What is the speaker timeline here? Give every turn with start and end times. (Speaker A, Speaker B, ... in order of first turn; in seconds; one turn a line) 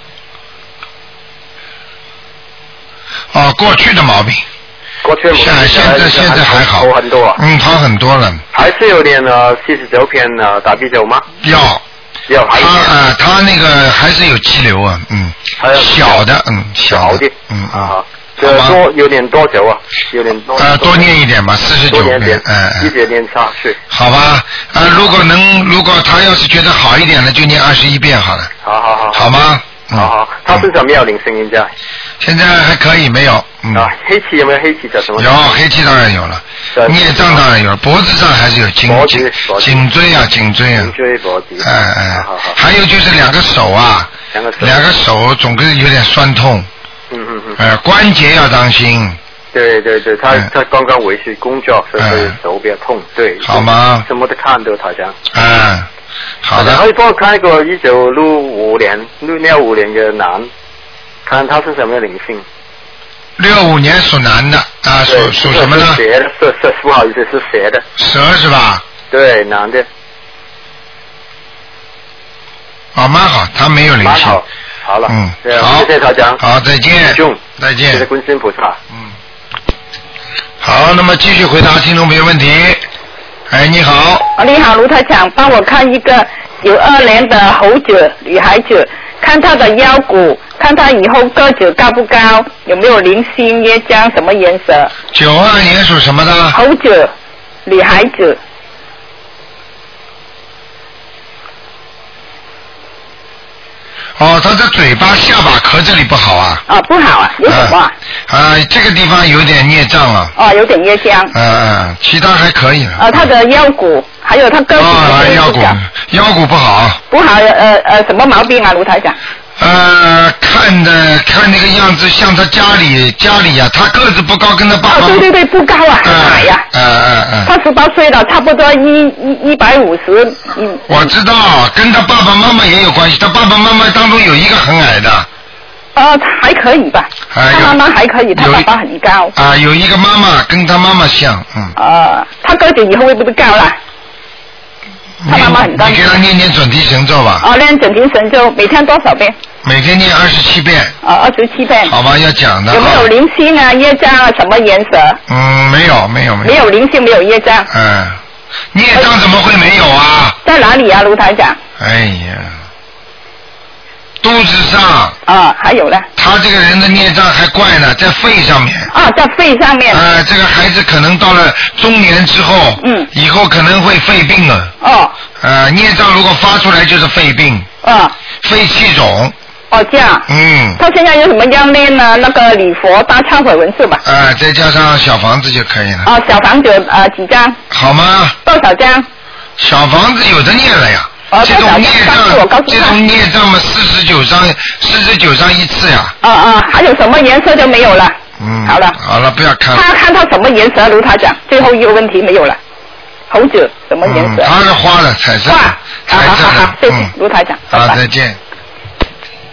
Speaker A: 3.3-4.4
Speaker B: 5.0-7.4
Speaker A: 5.3-8.4
Speaker B: 8.5-11.2
Speaker A: 11.4-11.8
Speaker B: 12.3-12.9
Speaker A: 12.5-18.8
Speaker B: 15.6-16.2
Speaker B: 16.9-21.1
Speaker A: 20.6-22.9
Speaker B: 21.9-23.8
Speaker A: 23.9-28.5
Speaker B: 28.6-29.4
Speaker A: 29.1-30.6
Speaker B: 29.9-31.7
Speaker A: 32.2-33.9
Speaker B: 33.7-35.5
Speaker A: 35.1-40.9
Speaker B: 36.7-37.4
Speaker B: 38.9-39.9
Speaker B: 40.7-42.6
Speaker A: 41.6-46.7
Speaker B: 44.3-44.9
Speaker B: 47.1-47.6
Speaker A: 47.6-49.2
Speaker B: 49.5-55.2
Speaker A: 52.0-52.3
Speaker A: 53.4-54.1
Speaker A: 55.3-55.9
Speaker A: 56.4-56.8
Speaker B: 56.5-60.5
Speaker B: 61.2-62.4
Speaker A: 63.4-66.0
Speaker B: 65.0-67.8
Speaker A: 68.0-68.8
Speaker B: 69.1-69.8
Speaker A: 72.9-74.4
Speaker B: 74.0-76.4
Speaker A: 75.1-78.1
Speaker B: 77.0-77.4
Speaker B: 77.9-78.8
Speaker A: 80.6-82.8
Speaker A: 83.5-84.3
Speaker C: 84.4-94.9
Speaker A: 95.1-96.6
Speaker C: 96.5-97.1
Speaker C: 97.7-98.4
Speaker A: 104.2-106.6
Speaker C: 106.7-107.9
Speaker A: 107.4-107.8
Speaker A: 108.3-110.3
Speaker C: 110.3-111.3
Speaker A: 111.3-113.2
Speaker C: 113.0-115.8
Speaker A: 114.8-117.0
Speaker C: 117.1-119.2
Speaker A: 119.6-125.3
Speaker C: 124.9-126.6
Speaker A: 126.0-127.5
Speaker C: 127.5-131.1
Speaker A: 130.9-135.3
Speaker C: 135.9-139.3
Speaker A: 137.3-137.8
Speaker A: 138.3-138.7
Speaker A: 139.3-141.7
Speaker C: 141.8-143.8
Speaker A: 145.2-147.4
Speaker C: 145.3-146.2
Speaker C: 147.4-149.3
Speaker A: 149.6-150.9
Speaker C: 151.0-151.9
Speaker A: 151.8-153.1
Speaker C: 152.7-155.2
Speaker A: 155.3-156.6
Speaker C: 156.4-157.7
Speaker A: 157.7-158.2
Speaker A: 158.7-160.4
Speaker C: 160.4-161.6
Speaker A: 161.8-162.5
Speaker A: 164.2-165.2
Speaker C: 165.3-166.1
Speaker A: 166.2-168.9
Speaker C: 168.9-170.0
Speaker A: 169.9-174.7
Speaker C: 172.8-173.1
Speaker C: 174.8-175.1
Speaker A: 175.4-177.7
Speaker C: 177.8-178.1
Speaker A: 178.4-179.3
Speaker C: 179.7-180.2
Speaker A: 180.3-180.8
Speaker C: 180.8-184.0
Speaker A: 184.0-186.1
Speaker C: 186.0-187.6
Speaker A: 187.7-188.4
Speaker C: 188.4-189.1
Speaker A: 189.6-196.1
Speaker C: 191.3-193.0
Speaker C: 196.2-198.9
Speaker A: 198.4-199.9
Speaker C: 199.7-202.6
Speaker C: 203.3-204.5
Speaker A: 204.0-207.1
Speaker C: 205.5-208.0
Speaker A: 207.7-208.4